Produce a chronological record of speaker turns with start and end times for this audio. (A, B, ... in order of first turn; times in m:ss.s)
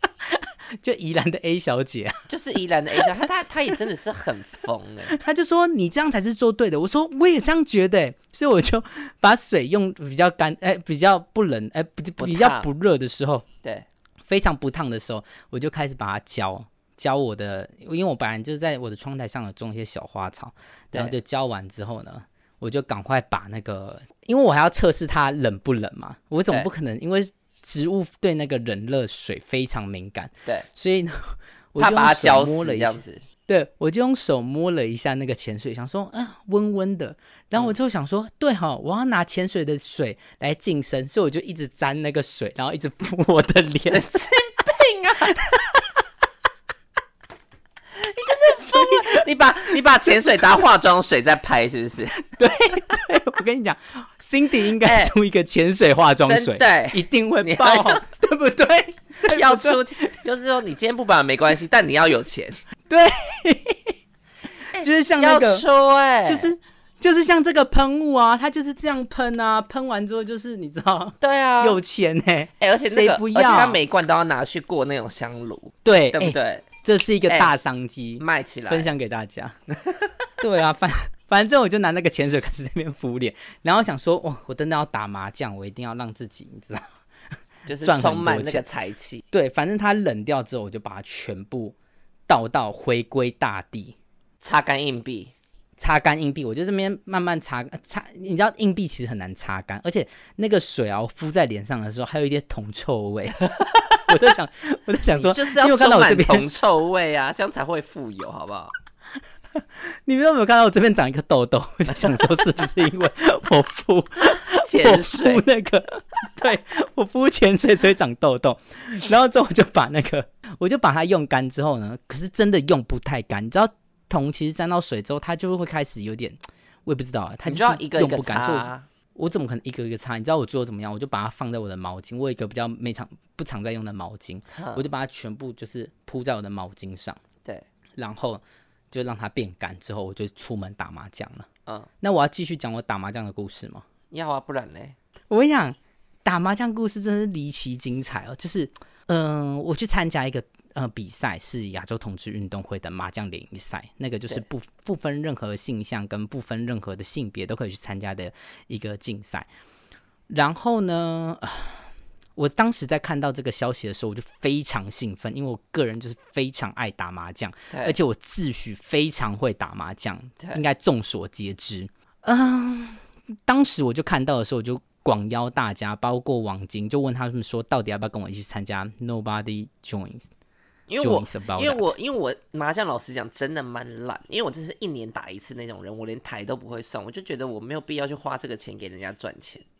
0:00.3-0:02.3 A
0:02.3-0:05.2 B
0:05.1-0:13.4 A
0:12.2-0:12.7 B
0:14.3-0:44.2 A
0:31.8-0:33.2 B
0:43.9-0:45.4 B
0:45.3-0:45.8 A
0:48.0-0:52.2 B
0:48.4-0:49.2 A
0:52.2-1:00.2 A
0:54.8-0:55.1 B
0:56.2-0:58.0 B
0:59.2-1:02.6 B
1:02.9-1:03.9 A
1:04.7-1:06.5 B
1:04.7-1:05.6 A
1:06.2-1:13.8 A
1:11.2-1:11.8 B
1:12.6-1:16.7 B
1:15.8-1:19.5 A
1:18.2-1:18.9 B
1:19.7-1:20.1 B
1:20.4-1:26.8 A
1:27.6-1:29.2 B
1:27.8-1:28.6 A
1:29.3-1:31.7 A
1:32.3-1:33.9 A
1:34.4-1:35.3 B
1:35.8-1:43.4 A
1:43.6-1:44.3 B
1:44.0-1:46.5 A
1:45.1-1:48.7 B
1:49.6-2:17.2 A
1:51.9-1:52.3 B
1:54.2-1:55.4 B
2:07.4-2:08.9 B
2:14.5-2:14.8 B
2:18.0-2:21.5 A
2:22.0-2:23.8 A
2:24.1-2:25.0 B
2:25.3-2:39.5 A
2:40.3-2:41.8 A
2:42.4-3:00.3 A
2:47.7-2:48.0 B
3:00.9-3:09.6 B
3:01.0-3:01.9 A